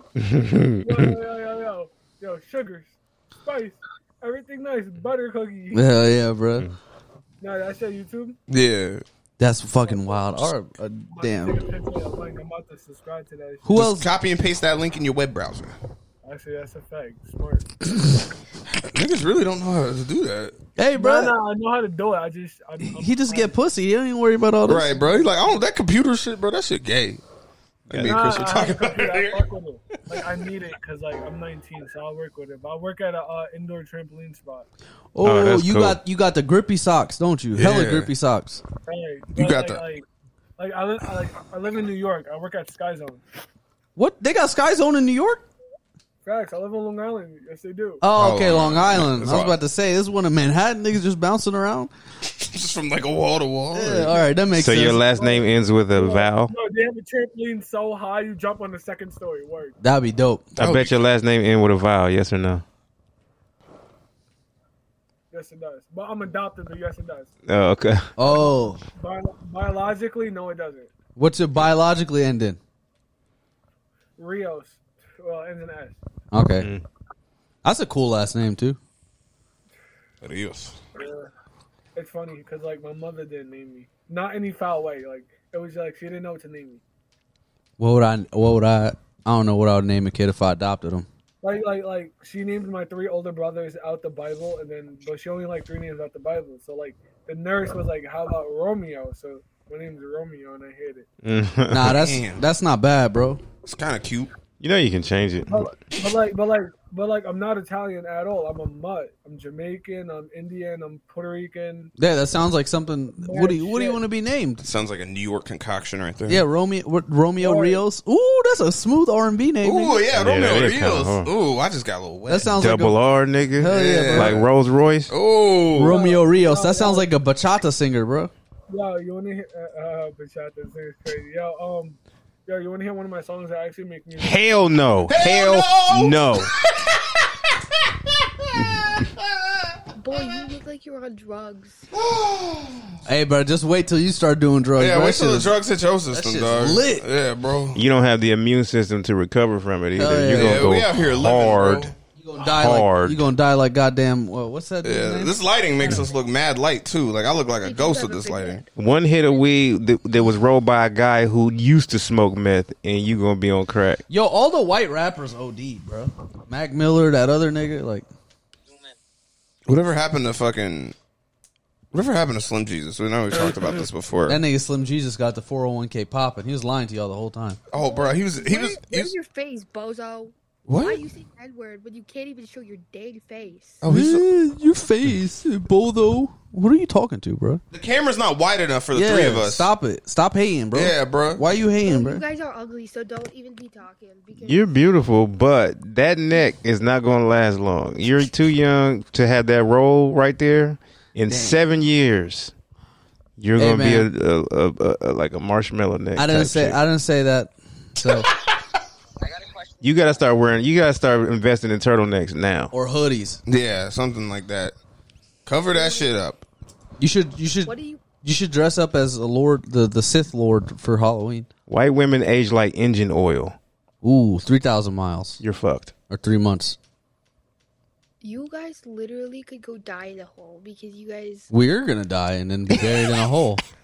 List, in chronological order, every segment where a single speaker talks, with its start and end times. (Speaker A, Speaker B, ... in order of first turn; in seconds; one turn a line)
Speaker A: 0.1-1.1
Speaker B: 0.8-5.9
Speaker C: 5.7-6.7
Speaker B: 7.4-8.4
Speaker D: 8.5-9.0
Speaker C: 9.4-11.6
Speaker B: 9.8-10.5
Speaker B: 11.1-13.7
Speaker C: 13.6-14.1
Speaker D: 13.7-15.8
Speaker B: 16.2-17.7
Speaker D: 18.8-20.6
Speaker C: 20.8-21.3
Speaker B: 20.9-23.5
Speaker C: 22.9-24.9
Speaker D: 24.7-27.2
Speaker D: 27.9-29.4
Speaker A: 27.9-28.2
Speaker B: 28.0-34.6
Speaker C: 35.1-38.6
Speaker A: 35.2-36.0
Speaker D: 37.5-38.1
Speaker B: 38.9-40.0
Speaker D: 39.3-39.8
Speaker B: 40.6-43.2
Speaker C: 44.0-45.4
Speaker B: 46.2-48.0
Speaker C: 48.0-51.9
Speaker D: 48.1-49.6
Speaker D: 52.4-54.2
Speaker C: 53.7-55.0
Speaker A: 54.5-56.5
Speaker B: 55.0-59.8
Speaker C: 59.8-60.4
Speaker A: 60.6-62.6
Speaker D: 60.6-61.0
Speaker B: 65.3-67.3
Speaker A: 67.5-68.1
Speaker C: 68.2-68.8
Speaker B: 68.2-70.9
Speaker C: 71.2-72.6
Speaker B: 74.2-76.0
Speaker C: 76.3-76.7
Speaker C: 77.6-78.8
Speaker D: 80.2-80.8
Speaker B: 80.9-81.3
Speaker B: 81.9-86.8
Speaker C: 87.8-91.1
Speaker B: 91.4-101.1
Speaker A: 101.2-102.0
Speaker C: 101.7-103.4
Speaker D: 101.8-102.4
Speaker D: 103.6-104.3
Speaker A: 104.6-105.7
Speaker B: 105.5-111.9
Speaker C: 112.0-114.6
Speaker B: 113.2-114.0
Speaker D: 114.6-116.4
Speaker C: 116.3-120.0
Speaker B: 117.4-117.8
Speaker D: 119.6-122.5
Speaker A: 120.1-121.3
Speaker C: 122.3-123.0
Speaker A: 122.5-125.1
Speaker C: 123.6-124.3
Speaker D: 123.7-124.5
Speaker D: 125.1-126.0
Speaker C: 125.7-128.3
Speaker B: 125.8-127.1
Speaker B: 128.7-134.8
Speaker A: 134.2-136.5
Speaker D: 135.1-136.9
Speaker A: 138.5-139.0
Speaker E: 139.9-141.8
Speaker D: 141.9-142.9
Speaker C: 143.1-145.5
Speaker D: 144.8-147.8
Speaker C: 146.1-147.0
Speaker A: 147.7-153.3
Speaker C: 150.0-150.7
Speaker D: 150.3-151.9
Speaker C: 152.2-155.3
Speaker D: 154.8-158.6
Speaker E: 157.6-158.7
Speaker A: 158.8-164.0
Speaker C: 164.1-168.1
Speaker D: 169.7-170.9
Speaker D: 171.9-174.4
Speaker C: 174.3-177.6
Speaker D: 177.7-179.1
Speaker E: 177.7-183.8
Speaker D: 180.7-181.0
Speaker D: 183.8-184.2
Speaker C: 183.8-187.6
Speaker D: 187.7-189.7
Speaker C: 188.9-192.2
Speaker D: 190.7-191.4
Speaker E: 191.8-194.7
Speaker A: 194.3-202.5
Speaker C: 201.3-201.6
Speaker A: 203.4-206.8
Speaker C: 203.6-204.1
Speaker C: 206.2-208.3
Speaker A: 209.8-212.7
Speaker C: 212.7-213.4
Speaker D: 213.5-214.7
Speaker D: 215.4-216.4
Speaker E: 215.7-216.1
Speaker C: 217.0-221.5
Speaker E: 217.6-218.0
Speaker A: 221.7-223.6
Speaker C: 224.0-225.4
Speaker A: 225.4-225.9
Speaker C: 226.1-226.8
Speaker E: 228.2-231.5
Speaker C: 231.5-233.6